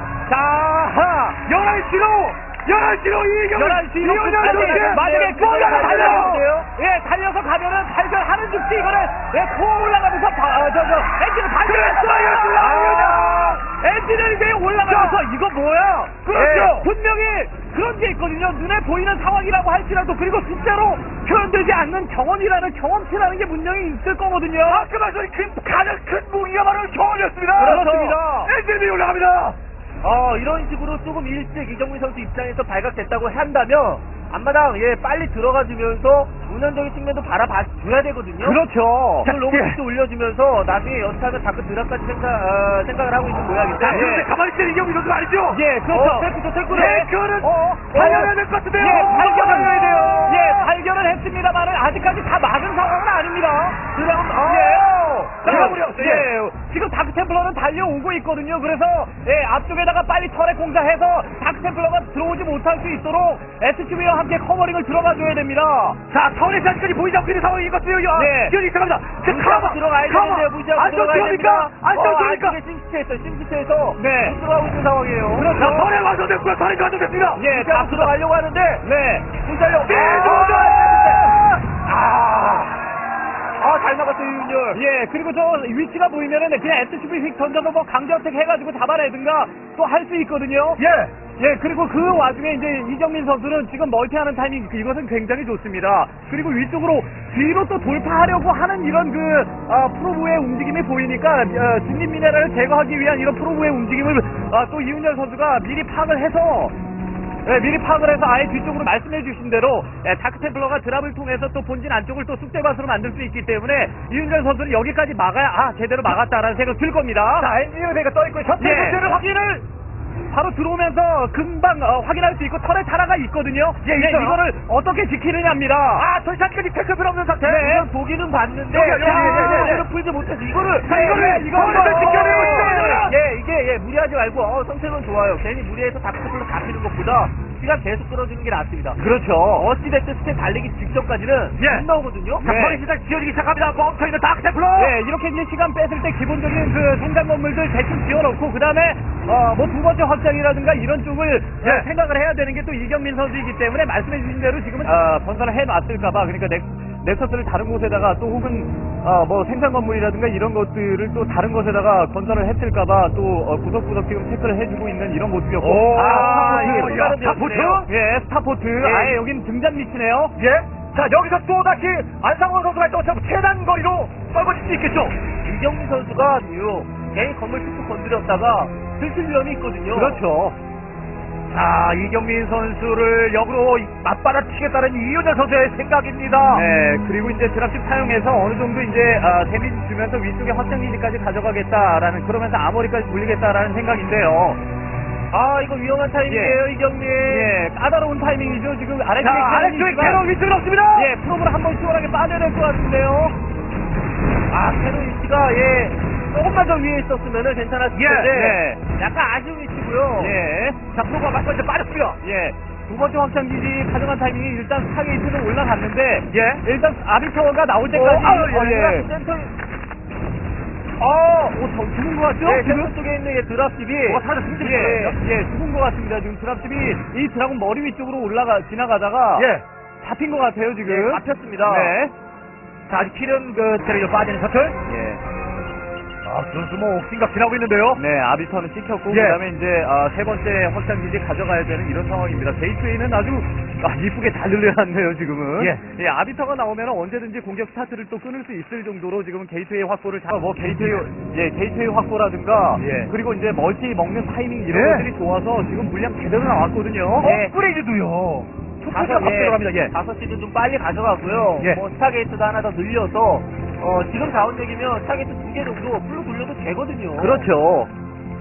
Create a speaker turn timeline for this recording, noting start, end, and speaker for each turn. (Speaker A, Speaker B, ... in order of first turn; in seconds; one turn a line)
Speaker A: 0.3-1.4
Speaker B: 1.4-6.4
Speaker A: 3.5-24.9
Speaker C: 4.0-6.7
Speaker B: 11.6-13.6
Speaker B: 14.8-15.3
Speaker B: 16.0-16.9
Speaker C: 16.3-16.9
Speaker B: 24.7-27.9
Speaker C: 27.6-28.5
Speaker A: 27.6-28.5
Speaker B: 28.4-29.6
Speaker C: 30.0-38.6
Speaker A: 38.4-39.4
Speaker C: 39.2-44.2
Speaker B: 39.3-39.6
Speaker B: 43.8-45.6
Speaker A: 43.8-44.3
Speaker A: 45.5-53.8
Speaker C: 45.9-46.4
Speaker B: 46.6-50.6
Speaker C: 53.9-54.9
Speaker A: 54.4-66.0
Speaker B: 54.9-56.3
Speaker C: 55.4-56.3
Speaker B: 66.1-72.6
Speaker A: 68.2-68.5
Speaker C: 68.2-68.5
Speaker C: 69.2-75.5
Speaker B: 74.0-74.3
Speaker B: 75.4-78.1
Speaker A: 75.4-75.9
Speaker C: 77.3-81.2
Speaker A: 77.4-78.0
Speaker A: 78.8-79.2
Speaker B: 79.8-81.5
Speaker A: 80.2-81.5
Speaker C: 83.6-84.8
Speaker A: 84.7-90.8
Speaker B: 90.8-91.1
Speaker A: 91.4-106.8
Speaker A: 107.5-117.5
Speaker B: 117.4-119.6
Speaker A: 118.6-119.3
Speaker C: 118.7-118.9
Speaker A: 120.3-126.1
Speaker B: 123.8-124.4
Speaker B: 126.0-127.7
Speaker C: 127.4-139.0
Speaker A: 127.5-127.8
Speaker B: 128.7-129.8
Speaker A: 128.9-129.8
Speaker B: 130.9-133.2
Speaker A: 130.9-133.0
Speaker A: 139.0-139.6
Speaker C: 139.5-142.8
Speaker B: 141.6-141.8
Speaker B: 142.4-144.9
Speaker A: 142.5-142.8
Speaker A: 144.8-167.2
Speaker B: 165.6-167.9
Speaker C: 165.9-167.8
Speaker A: 167.8-170.4
Speaker C: 168.8-169.2
Speaker B: 170.4-175.2
Speaker C: 175.4-180.2
Speaker A: 180.0-180.5
Speaker B: 181.5-186.7
Speaker A: 186.5-194.6
Speaker C: 195.3-197.6
Speaker A: 196.3-196.6
Speaker A: 197.2-200.2
Speaker B: 199.2-201.1
Speaker A: 200.9-203.4
Speaker C: 204.5-210.4
Speaker B: 207.9-208.8
Speaker B: 210.2-212.2
Speaker A: 212.2-219.1
Speaker B: 216.3-216.6
Speaker C: 217.9-219.5
Speaker A: 221.0-222.9
Speaker C: 222.4-225.2
Speaker A: 224.1-231.2
Speaker B: 224.1-224.7
Speaker B: 229.4-229.6
Speaker C: 230.8-232.0
Speaker B: 231.7-232.0
Speaker B: 232.9-234.8
Speaker C: 234.9-235.2
Speaker B: 236.2-238.0
Speaker A: 237.9-257.3
Speaker B: 239.1-239.4
Speaker B: 250.6-251.1
Speaker B: 252.8-253.1
Speaker B: 254.7-255.1
Speaker B: 257.2-259.9
Speaker C: 257.2-257.6
Speaker C: 258.9-267.5
Speaker B: 267.2-267.7
Speaker A: 267.5-267.9